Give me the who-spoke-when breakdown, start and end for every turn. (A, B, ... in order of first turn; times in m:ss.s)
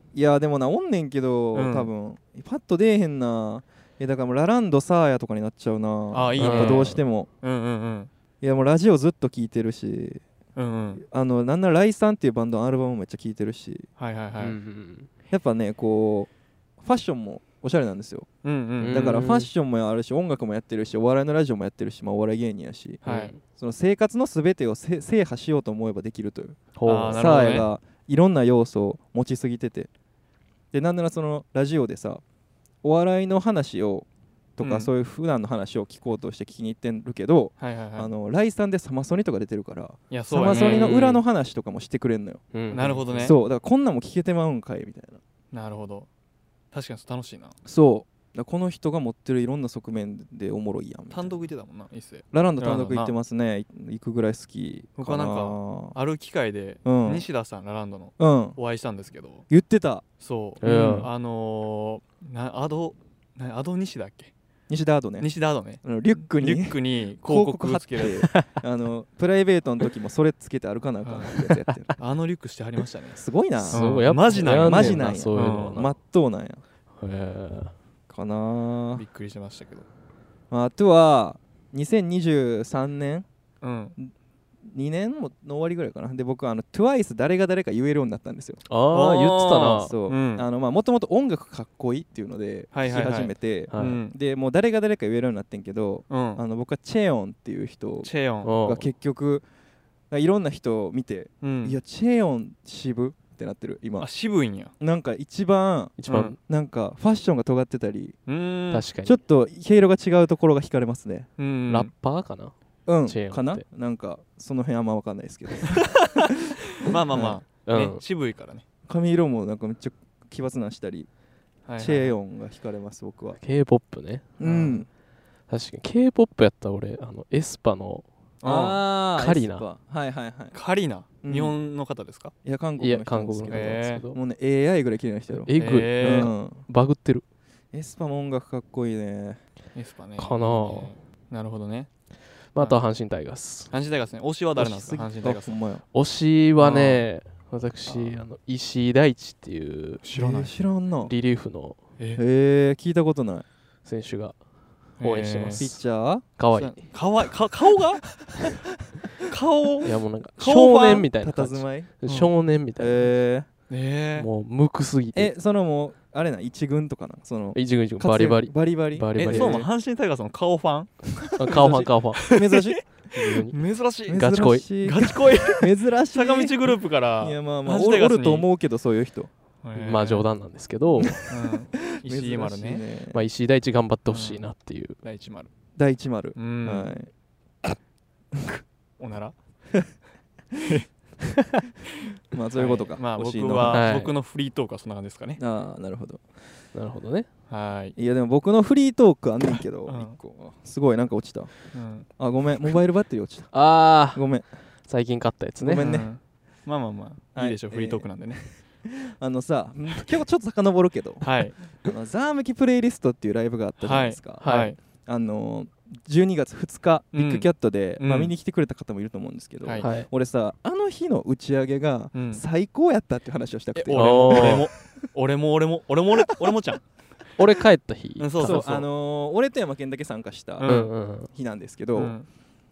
0:00.1-0:07.3 A
0:01.5-0:01.9 B
0:06.1-0:08.1 B
0:06.4-0:07.0 C
0:08.4-0:10.2 A
0:10.6-0:11.0 B
0:11.0-0:13.9 A
0:14.0-0:14.6 B
0:14.4-0:15.1 C
0:15.3-0:16.3 A
0:16.8-0:18.3 A
0:18.4-0:19.1 B
0:18.8-0:19.5 C
0:18.9-0:29.9 A
0:23.0-0:23.3 B
0:23.0-0:23.4 C
0:26.8-0:27.3 C
0:26.9-0:27.7 B
0:30.7-0:32.2 A
0:32.8-0:34.1 A
0:34.6-0:42.4 A
0:34.6-0:34.9 B
0:37.6-0:38.1 B
0:40.1-0:41.2 B
0:40.5-0:41.2 C
0:42.5-0:43.4 C
0:42.7-0:43.4 B
0:43.2-0:45.2 A
0:45.5-0:46.1 B
0:46.7-0:47.6 B
0:47.7-0:51.4 A
0:51.1-0:53.1 B
0:52.3-0:56.0 A
0:55.0-0:59.5 B
0:56.8-0:57.3 A
0:58.2-0:58.6 A
0:59.5-1:00.0 A
1:00.2-1:04.3 B
1:00.6-1:01.1 C
1:00.7-1:01.0 A
1:04.7-1:05.3 A
1:05.2-1:08.3 B
1:05.8-1:11.9 A
1:11.0-1:11.4 B
1:12.0-1:15.9 B
1:13.2-1:16.6 A
1:13.6-1:15.9 C
1:17.0-1:17.7 C
1:18.1-1:19.0 A
1:19.0-1:19.9 B
1:20.5-1:23.3 A
1:23.6-1:24.0 B
1:24.7-1:28.6 A
1:28.7-1:29.9 C
1:28.9-1:30.5 B
1:29.8-1:39.4 A
1:32.7-1:34.2 B
1:33.7-1:34.0 C
1:36.1-1:36.4 B
1:38.0-1:38.5 B
1:38.4-1:38.9 C
1:40.1-1:44.1 A
1:41.4-1:41.8 B
1:44.0-1:44.7 B
1:44.8-1:48.2 A
1:46.0-1:46.4 C
1:46.1-1:46.4 B
1:48.3-1:48.8 B
1:48.7-1:49.2 C
1:49.0-1:51.3 A
1:51.4-1:51.9 B
1:51.7-1:52.5 C
1:52.9-1:56.3 A
1:53.1-1:53.6 C
1:56.8-1:58.6 B
1:57.1-1:57.4 A
1:57.7-1:58.0 C
1:58.9-2:01.1 A
2:01.7-2:02.2 B
2:01.8-2:03.4 A
2:03.4-2:04.4 C
2:04.4-2:04.9 A
2:04.4-2:04.8 B
2:05.5-2:08.1 C
2:08.4-2:08.8 B
2:08.4-2:10.6 A
2:09.2-2:09.6 C
2:10.5-2:12.3 B
2:11.2-2:11.6 A
2:12.4-2:16.6 A
2:12.8-2:14.2 C
2:13.5-2:14.0 B
2:15.3-2:17.2 C
2:15.5-2:16.3 B
2:17.7-2:19.4 A
2:19.8-2:21.9 B
2:20.2-2:20.9 C
2:22.6-2:23.7 C
2:23.7-2:25.6 B
2:24.6-2:25.8 A
2:25.9-2:30.0 C
2:26.6-2:27.0 B
2:30.0-2:30.5 B
2:30.1-2:31.1 A
2:31.0-2:31.8 C
2:32.2-2:33.5 A
2:33.8-2:34.4 C
2:35.0-2:35.7 B
2:35.0-2:35.8 C
2:35.6-2:36.2 A
2:36.4-2:36.8 C
2:36.6-2:38.2 B
2:39.3-2:40.0 B
2:39.8-2:43.1 C
2:40.4-2:41.9 A
2:40.6-2:41.1 B
2:42.1-2:42.3 B
2:42.8-2:43.5 A
2:43.7-2:44.3 B
2:44.2-2:45.3 C
2:45.2-2:49.7 A
2:47.5-2:49.6 C
2:49.2-2:50.9 B
2:51.2-2:52.8 A
2:51.4-2:52.4 C
2:51.5-2:58.5 B
2:53.1-2:54.7 C
2:54.1-2:59.3 A
2:59.6-3:00.3 B
2:59.8-3:01.3 C
3:01.0-3:01.3 A
3:01.2-3:02.8 B
3:01.9-3:03.2 A
3:03.1-3:05.0 C
3:04.1-3:04.4 B
3:05.0-3:05.5 B
3:05.8-3:07.1 A
3:06.4-3:06.9 B
3:09.0-3:09.4 B
3:10.6-3:10.9 B
3:12.3-3:13.9 A
3:12.6-3:15.4 B
3:13.6-3:14.2 C
3:15.4-3:16.2 A
3:16.7-3:17.3 C
3:17.5-3:18.0 B
3:18.0-3:21.5 A
3:19.9-3:20.2 B
3:21.7-3:22.1 B
3:22.2-3:23.6 A
3:23.5-3:24.2 C
3:24.1-3:24.5 A
3:24.9-3:25.9 C
3:25.6-3:26.1 A
3:25.8-3:28.4 B
3:27.4-3:28.1 A
3:28.8-3:31.3 A
3:31.2-3:31.6 B
3:31.8-3:34.5 A
3:33.8-3:34.8 B
3:34.4-3:34.8 C
3:35.0-3:44.7 A
3:37.1-3:38.3 B
3:39.6-3:39.9 B
3:39.8-3:40.1 C
3:42.1-3:42.4 B
3:43.8-3:46.8 B
3:43.9-3:44.7 C
3:47.4-3:48.7 C
3:48.2-3:48.9 B
3:48.4-3:50.8 A
3:50.6-3:50.9 B
3:50.6-3:51.3 C
3:51.3-3:52.2 A
3:52.0-3:52.3 B